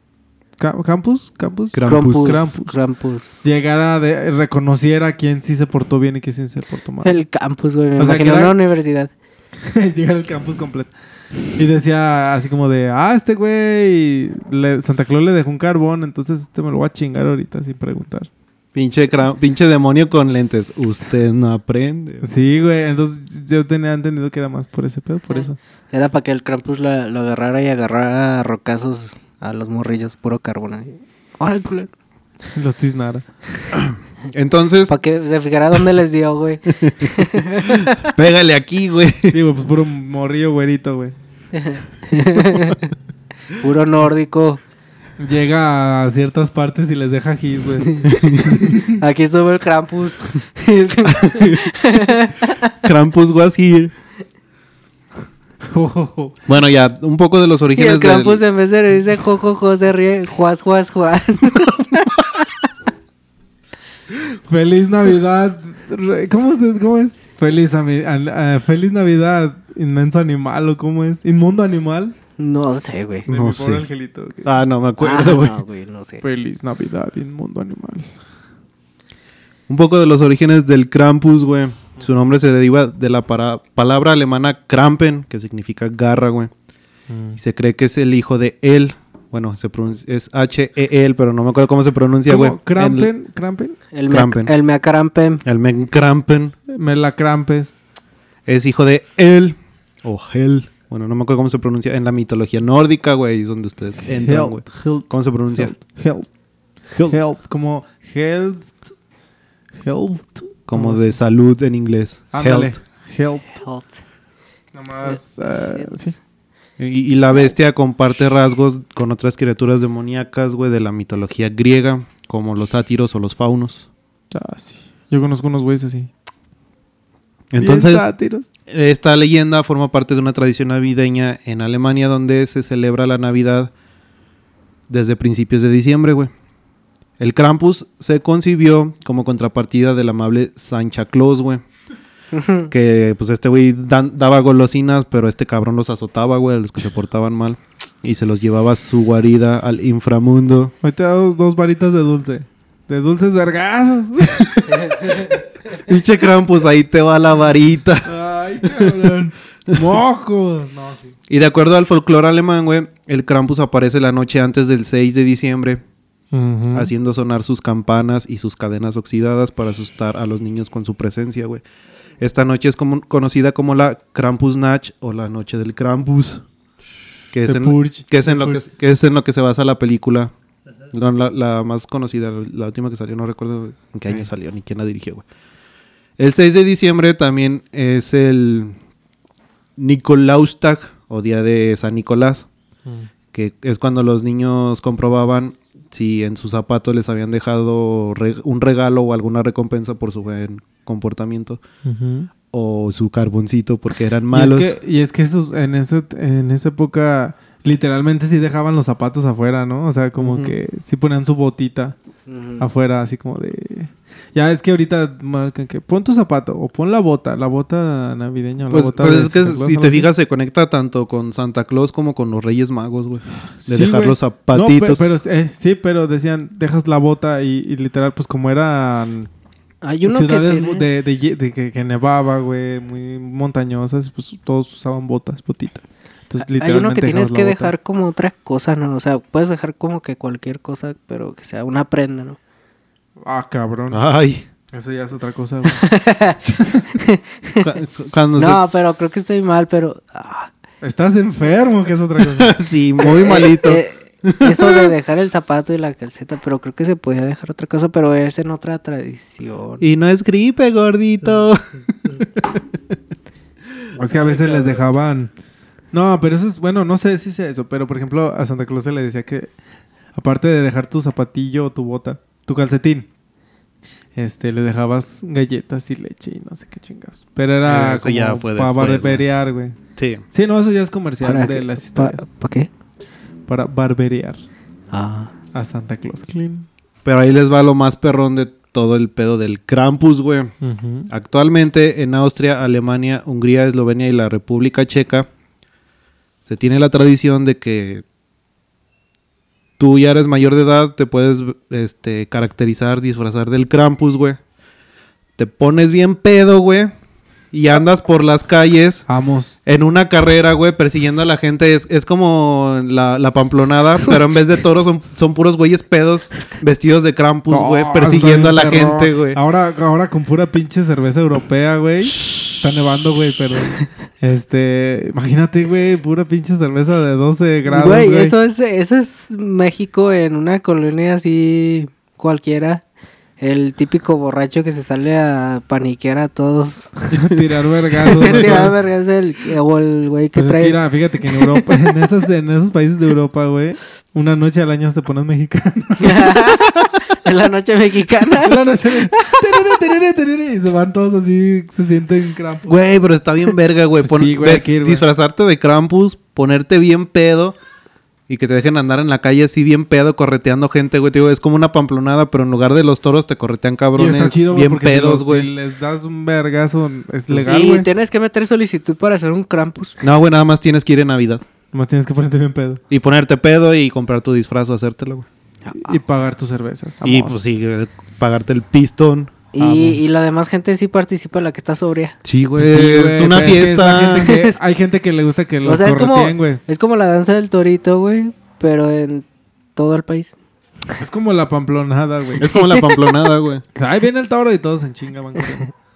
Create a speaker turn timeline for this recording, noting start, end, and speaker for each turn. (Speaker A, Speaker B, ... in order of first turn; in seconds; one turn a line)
Speaker A: 0.6-2.7
Speaker B: 1.7-2.4
Speaker C: 1.9-3.4
Speaker A: 3.4-7.2
Speaker C: 7.0-9.1
Speaker A: 8.0-8.6
Speaker A: 9.6-10.9
Speaker A: 11.6-18.3
Speaker B: 18.8-22.3
Speaker A: 22.2-25.6
Speaker C: 25.3-31.9
Speaker A: 32.5-33.2
Speaker B: 33.7-35.0
Speaker C: 34.9-38.0
Speaker B: 36.8-39.4
Speaker A: 39.3-41.1
Speaker C: 41.5-42.9
Speaker C: 43.6-44.6
Speaker A: 45.2-48.9
Speaker B: 48.1-48.6
Speaker C: 48.9-52.7
Speaker B: 51.2-51.6
Speaker B: 52.8-53.9
Speaker A: 55.7-56.4
Speaker B: 56.5-58.4
Speaker C: 57.8-62.5
Speaker A: 64.1-72.2
Speaker C: 72.4-73.3
Speaker B: 73.3-73.8
Speaker A: 73.3-74.6
Speaker B: 74.4-75.6
Speaker C: 75.0-76.2
Speaker A: 76.2-78.1
Speaker B: 79.7-86.5
Speaker A: 87.1-87.4
Speaker B: 87.4-93.1
Speaker A: 92.3-93.8
Speaker C: 93.9-95.4
Speaker B: 94.1-94.5
Speaker B: 95.5-96.5
Speaker A: 96.7-97.7
Speaker B: 98.5-105.7
Speaker A: 104.2-106.3
Speaker B: 106.9-107.2
Speaker A: 107.1-108.8
Speaker A: 109.8-111.2
Speaker B: 110.7-112.8
Speaker A: 112.3-113.5
Speaker C: 113.5-113.9
Speaker A: 114.7-116.2
Speaker B: 116.8-123.9
Speaker A: 124.3-126.1
Speaker B: 127.5-128.1
Speaker A: 127.6-128.5
Speaker B: 128.7-133.7
Speaker B: 134.9-136.3
Speaker B: 137.2-141.6
Speaker C: 142.4-142.7
Speaker B: 142.7-150.7
Speaker A: 150.8-155.3
Speaker B: 155.7-159.1
Speaker A: 158.1-161.2
Speaker B: 161.3-165.8
Speaker A: 166.3-166.9
Speaker B: 166.7-171.6
Speaker B: 172.2-176.4
Speaker B: 177.3-180.3
Speaker A: 177.4-178.6
Speaker B: 180.9-185.2
Speaker B: 186.2-188.8
Speaker B: 189.8-192.5
Speaker B: 193.3-201.6
Speaker A: 201.8-202.3
Speaker B: 202.5-204.7
Speaker A: 204.3-212.0
Speaker B: 210.2-210.5
Speaker C: 212.3-212.7
Speaker A: 212.6-220.1
Speaker B: 218.7-225.1
Speaker A: 223.7-229.3
Speaker C: 229.8-230.9
Speaker A: 230.1-237.7
Speaker C: 236.4-242.4
Speaker A: 243.2-244.0
Speaker B: 243.9-244.4
Speaker A: 244.7-245.9
Speaker C: 245.8-246.4
Speaker A: 246.5-246.9
Speaker C: 246.9-247.7
Speaker B: 247.6-248.6
Speaker C: 248.4-250.5
Speaker A: 250.8-252.5
Speaker B: 252.3-254.9
Speaker C: 253.0-259.8
Speaker B: 259.8-262.6
Speaker A: 263.9-265.3
Speaker A: 265.9-269.5
Speaker A: 270.1-273.1
Speaker A: 274.1-279.8
Speaker B: 277.6-279.3
Speaker B: 280.0-280.2
Speaker A: 280.3-282.2
Speaker C: 281.2-282.7
Speaker A: 283.5-284.4
Speaker C: 284.9-285.3
Speaker A: 285.5-286.7
Speaker B: 287.1-290.5
Speaker A: 290.6-291.1
Speaker B: 291.1-295.3
Speaker B: 296.5-298.0
Speaker B: 299.8-304.4
Speaker B: 305.4-306.9
Speaker B: 307.5-309.1
Speaker A: 309.1-309.6
Speaker B: 309.7-319.4
Speaker A: 317.5-328.4
Speaker C: 327.7-332.8
Speaker C: 333.4-337.1
Speaker A: 337.1-338.8
Speaker C: 338.0-340.8
Speaker A: 340.4-346.6
Speaker C: 341.4-341.6
Speaker C: 346.0-349.4
Speaker A: 348.4-352.8
Speaker B: 352.7-357.6
Speaker A: 354.0-355.1
Speaker B: 358.3-365.5
Speaker A: 364.0-367.9
Speaker C: 367.3-370.0
Speaker B: 370.0-371.4
Speaker A: 371.7-372.8
Speaker B: 372.9-375.3
Speaker C: 375.6-376.0
Speaker A: 375.8-377.4
Speaker B: 377.0-379.4
Speaker C: 379.5-382.2
Speaker A: 379.6-380.0
Speaker B: 382.2-384.4
Speaker A: 382.6-386.6
Speaker C: 384.3-384.6
Speaker C: 385.6-390.4
Speaker A: 391.0-392.5
Speaker B: 392.4-393.6
Speaker C: 392.5-393.1
Speaker A: 393.8-395.7